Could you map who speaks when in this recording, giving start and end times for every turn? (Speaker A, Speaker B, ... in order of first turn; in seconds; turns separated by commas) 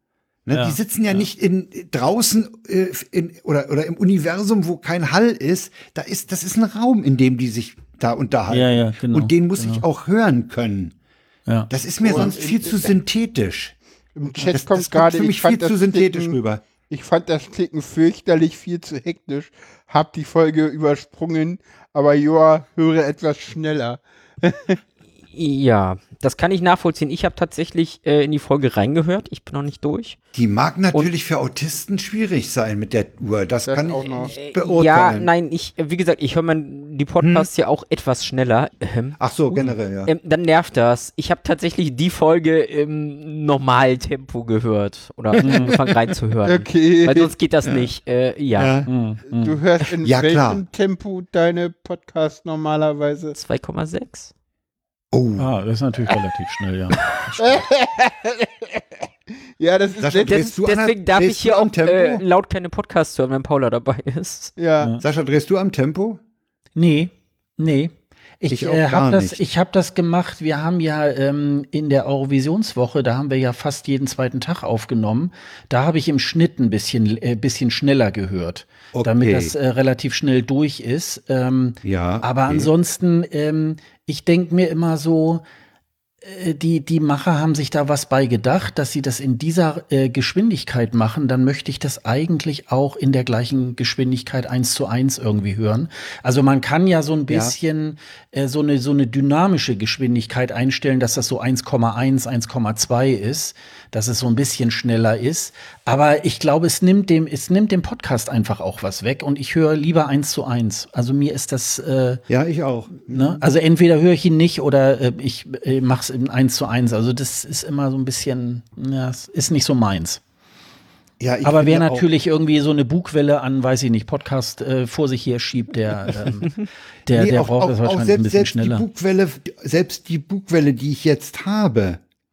Speaker A: 0.5-10.9, Speaker B: 0.5-0.8, Speaker B: 8.5-9.8, Speaker A: 11.7-13.8, Speaker C: 12.0-12.9, Speaker C: 14.2-16.4, Speaker A: 14.4-16.6, Speaker C: 16.9-24.8, Speaker D: 25.3-30.2, Speaker A: 30.3-35.3, Speaker C: 33.7-34.3, Speaker D: 34.3-48.8, Speaker A: 37.2-37.5, Speaker A: 39.2-40.1, Speaker B: 45.4-45.7, Speaker C: 46.5-47.3, Speaker A: 48.5-48.9, Speaker B: 48.9-49.5, Speaker C: 49.3-53.4, Speaker A: 50.0-50.6, Speaker D: 53.4-54.3, Speaker A: 55.1-55.5, Speaker B: 55.4-57.6, Speaker C: 57.4-58.9, Speaker C: 59.6-60.5, Speaker A: 60.0-62.2, Speaker D: 60.3-64.5, Speaker C: 64.6-65.0, Speaker A: 65.0-66.2, Speaker B: 66.8-85.4, Speaker A: 68.5-69.4, Speaker A: 78.9-79.5, Speaker A: 81.8-82.7, Speaker B: 86.2-112.2, Speaker A: 97.3-97.5, Speaker A: 112.3-113.4, Speaker B: 113.1-120.2, Speaker A: 121.2-122.1, Speaker B: 121.4-128.9, Speaker A: 127.1-132.0